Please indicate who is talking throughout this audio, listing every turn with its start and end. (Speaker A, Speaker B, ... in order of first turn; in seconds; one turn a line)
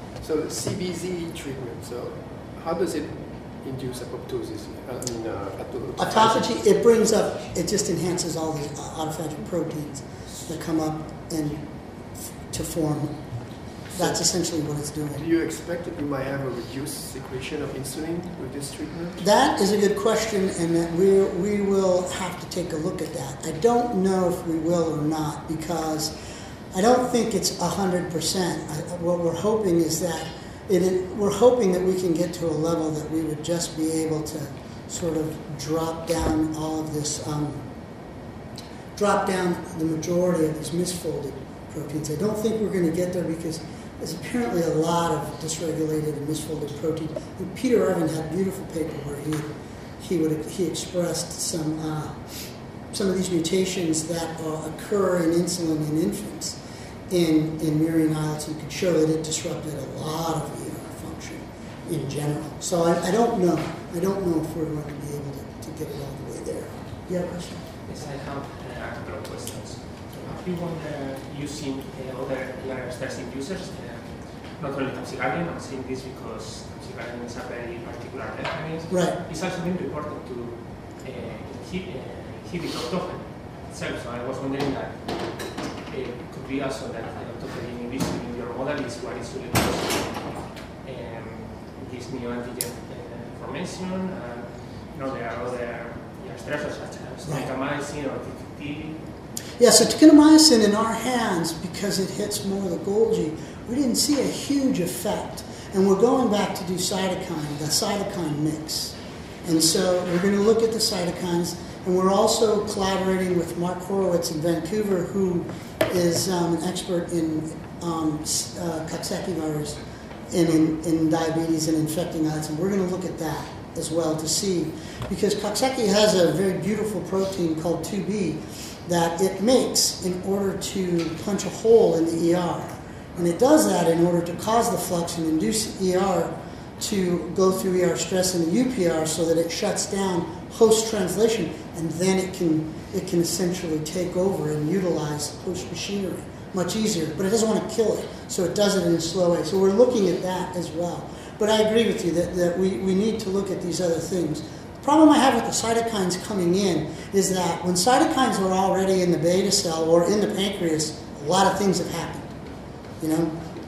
Speaker A: 0.2-6.5
Speaker B: 6.0-11.7
Speaker B: 12.5-13.2
Speaker A: 13.9-14.2
Speaker B: 13.9-15.2
Speaker A: 15.1-19.2
Speaker B: 19.2-26.1
Speaker B: 26.7-37.6
Speaker B: 39.0-52.3
Speaker B: 52.9-56.6
Speaker B: 57.1-67.6
Speaker C: 67.8-85.3
Speaker B: 78.9-79.2
Speaker C: 85.9-99.0
Speaker B: 99.6-119.8
Speaker B: 120.3-162.3
Speaker B: 163.0-163.4